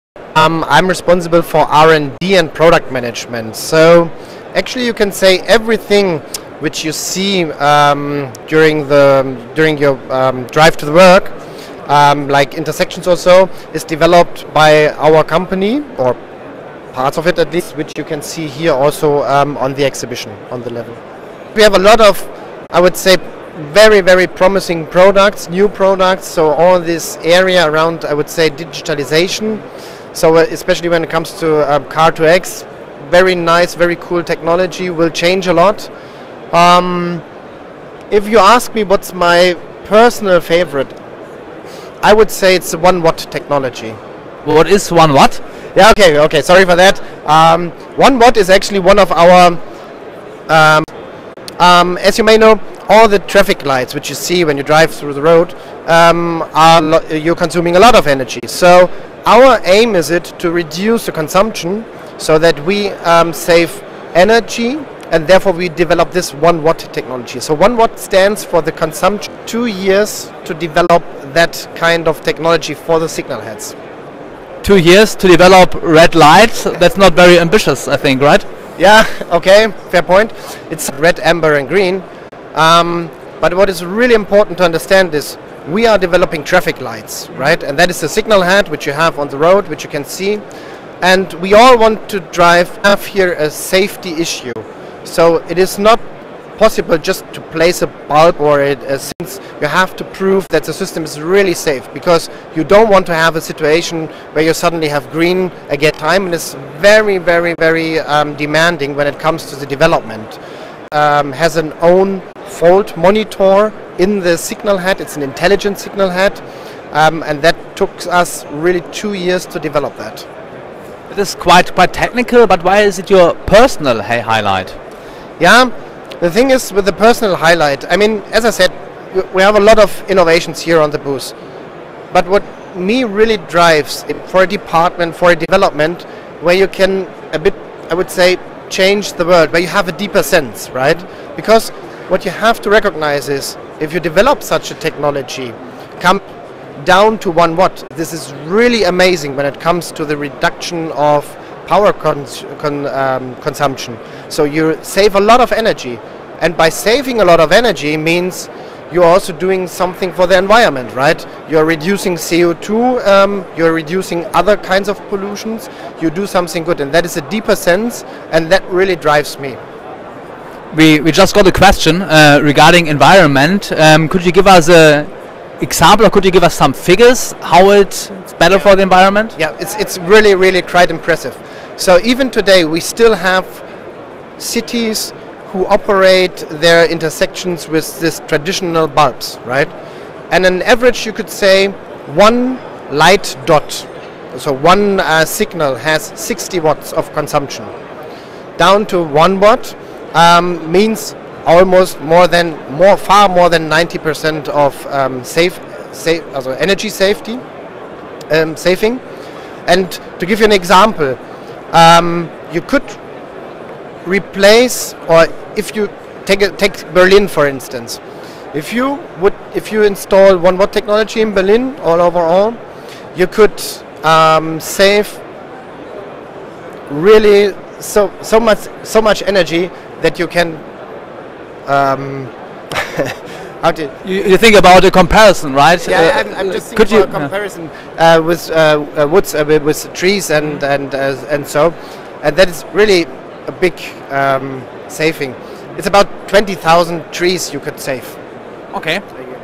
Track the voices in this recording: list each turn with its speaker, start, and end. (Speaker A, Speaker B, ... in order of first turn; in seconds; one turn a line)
Speaker A: 0.3-11.3
Speaker A: 11.9-16.2
Speaker A: 16.9-21.0
Speaker A: 21.6-29.6
Speaker A: 30.1-35.9
Speaker A: 36.5-37.2
Speaker A: 38.1-40.9
Speaker A: 42.0-44.0
Speaker B: 44.5-45.4
Speaker A: 45.8-49.6
Speaker A: 50.5-50.9
Speaker A: 51.6-73.8
Speaker B: 74.6-78.5
Speaker A: 78.8-90.4
Speaker A: 91.0-96.0
Speaker A: 96.6-110.4
Speaker A: 110.9-116.4
Speaker A: 116.9-120.3
Speaker B: 121.1-124.8
Speaker A: 125.4-131.3
Speaker A: 132.1-146.2
Speaker A: 146.8-169.6
Speaker B: 170.7-175.1
Speaker B: 175.6-179.3
Speaker A: 179.4-183.6
Speaker A: 184.4-189.7
Speaker A: 190.3-197.7
Speaker A: 198.6-207.4
Speaker A: 208.3-209.0
Speaker A: 209.7-211.2
Speaker A: 211.7-213.0
Speaker A: 214.1-218.0
Speaker A: 218.5-222.6
Speaker A: 223.2-225.2
Speaker A: 226.9-230.6
Speaker A: 231.7-233.9
Speaker B: 234.0-237.3
Speaker A: 235.8-248.2
Speaker B: 248.7-249.0